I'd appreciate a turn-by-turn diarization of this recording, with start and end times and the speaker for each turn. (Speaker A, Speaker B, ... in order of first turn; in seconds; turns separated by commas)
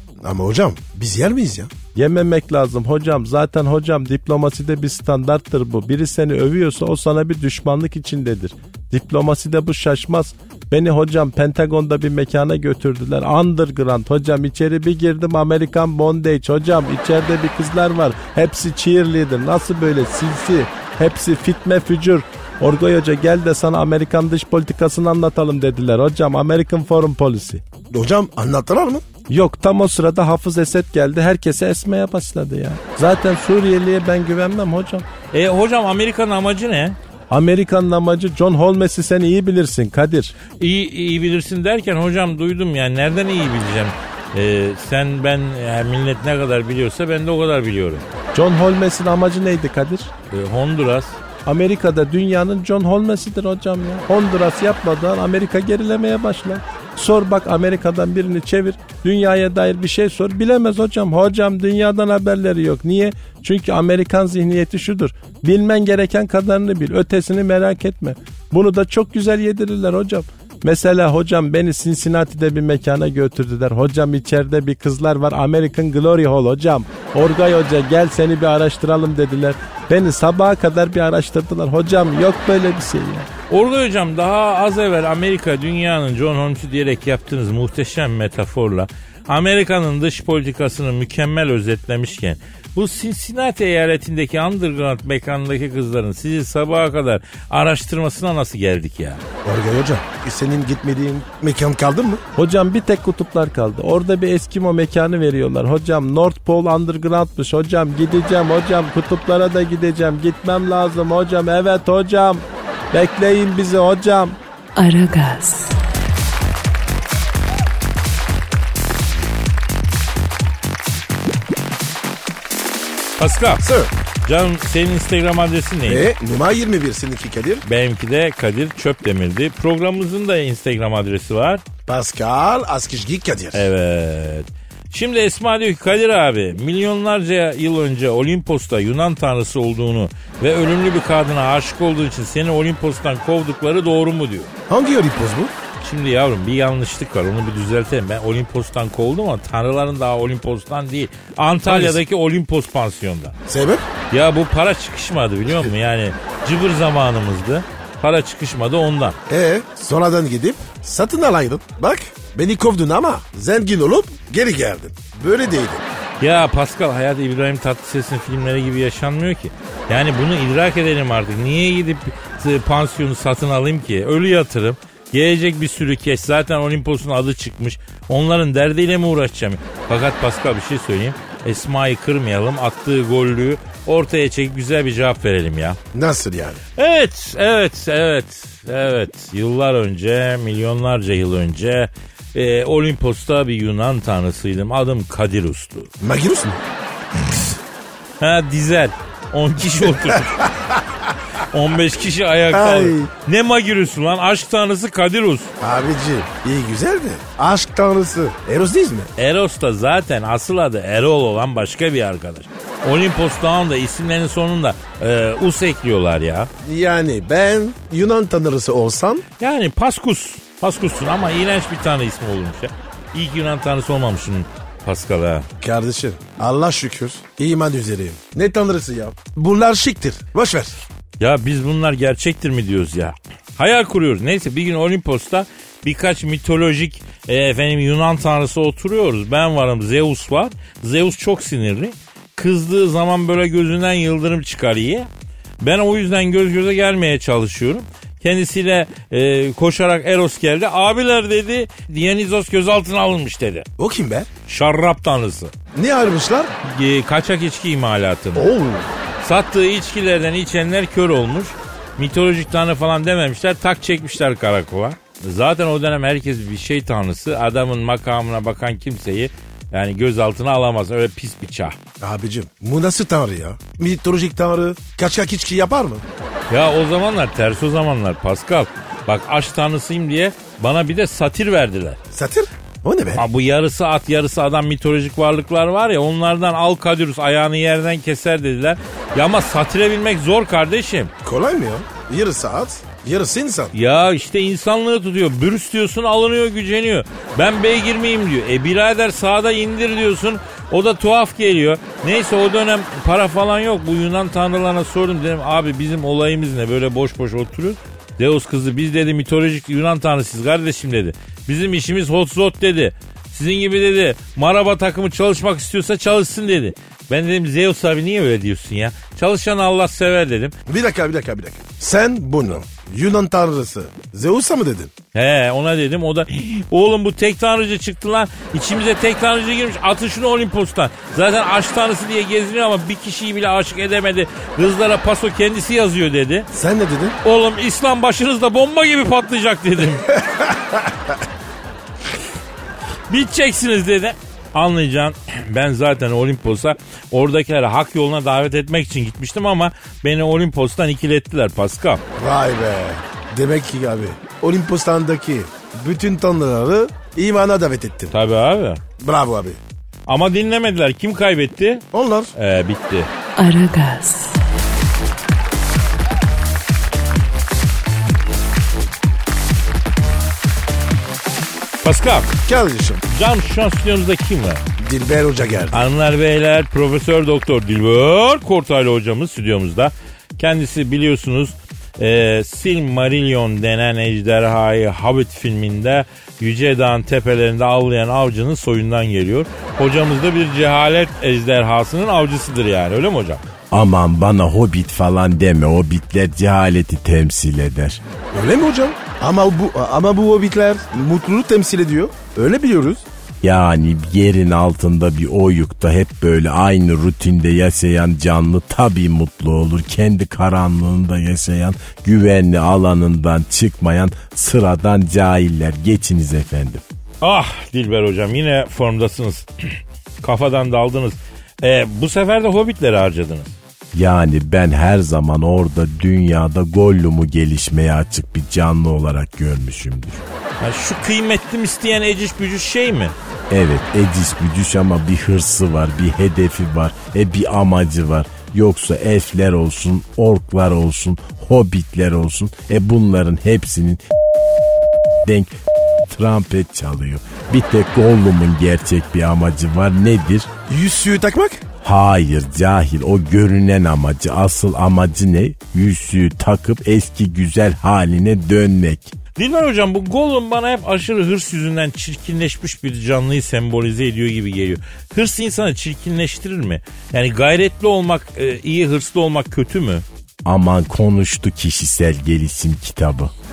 Speaker A: 0.2-1.7, Speaker B: 1.9-27.6, Speaker A: 27.9-29.0, Speaker B: 29.3-35.0, Speaker C: 35.3-37.0, Speaker B: 37.3-40.4, Speaker C: 40.6-48.0, Speaker B: 48.3-50.1, Speaker C: 50.3-51.2, Speaker B: 51.5-83.3, Speaker C: 83.5-99.2, Speaker A: 99.4-102.2, Speaker B: 102.3-114.4, Speaker D: 114.8-115.8, Speaker C: 123.2-123.6, Speaker A: 123.6-123.9, Speaker C: 124.2-126.1, Speaker A: 125.8-127.6, Speaker C: 127.6-131.6, Speaker A: 131.8-133.7, Speaker C: 133.5-144.5, Speaker A: 144.7-145.5, Speaker C: 145.8-153.3, Speaker A: 151.6-152.0, Speaker A: 153.5-153.8, Speaker C: 154.1-159.2, Speaker A: 159.3-165.8, Speaker C: 166.2-185.8, Speaker A: 185.9-186.6, Speaker C: 186.8-195.9, Speaker A: 196.0-196.6, Speaker C: 198.2-200.5, Speaker A: 200.4-200.8, Speaker C: 201.5-205.5, Speaker A: 202.5-203.1, Speaker A: 205.6-209.1, Speaker C: 209.2-216.5, Speaker A: 216.6-219.2, Speaker C: 219.4-225.5, Speaker A: 225.6-230.8, Speaker C: 231.2-245.1, Speaker C: 245.6-253.7, Speaker A: 253.8-254.3, Speaker C: 254.5-255.5, Speaker A: 255.7-256.5, Speaker C: 256.6-258.5, Speaker A: 258.3-258.9, Speaker C: 259.2-271.8, Speaker A: 272.0-276.0, Speaker C: 276.5-282.0, Speaker A: 282.1-283.2, Speaker C: 283.1-291.1, Speaker A: 291.2-293.7, Speaker C: 293.7-320.6, Speaker A: 320.6-324.9, Speaker C: 325.1-336.5, Speaker A: 336.5-337.2, Speaker C: 337.2-340.1, Speaker A: 340.4-340.9, Speaker C: 343.1-352.0, Speaker A: 352.2-358.1, Speaker C: 358.1-358.8, Speaker A: 359.0-359.6, Speaker C: 360.1-363.1, Speaker A: 361.9-362.3, Speaker D: 363.4-364.4, Speaker C: 371.8-372.3, Speaker A: 372.4-373.0, Speaker C: 373.1-374.6, Speaker A: 374.8-375.9, Speaker C: 375.7-393.4, Speaker E: 393.7-398.0, Speaker A: 398.3-403.0, Speaker E: 403.4-416.8, Speaker C: 417.2-423.5, Speaker E: 423.9-430.2, Speaker C: 430.6-433.1, Speaker E: 433.5-444.0, Speaker E: 445.2-445.6, Speaker E: 446.1-450.5, Speaker A: 450.7-451.6, Speaker E: 451.8-459.1, Speaker C: 459.4-470.0, Speaker E: 470.4-473.3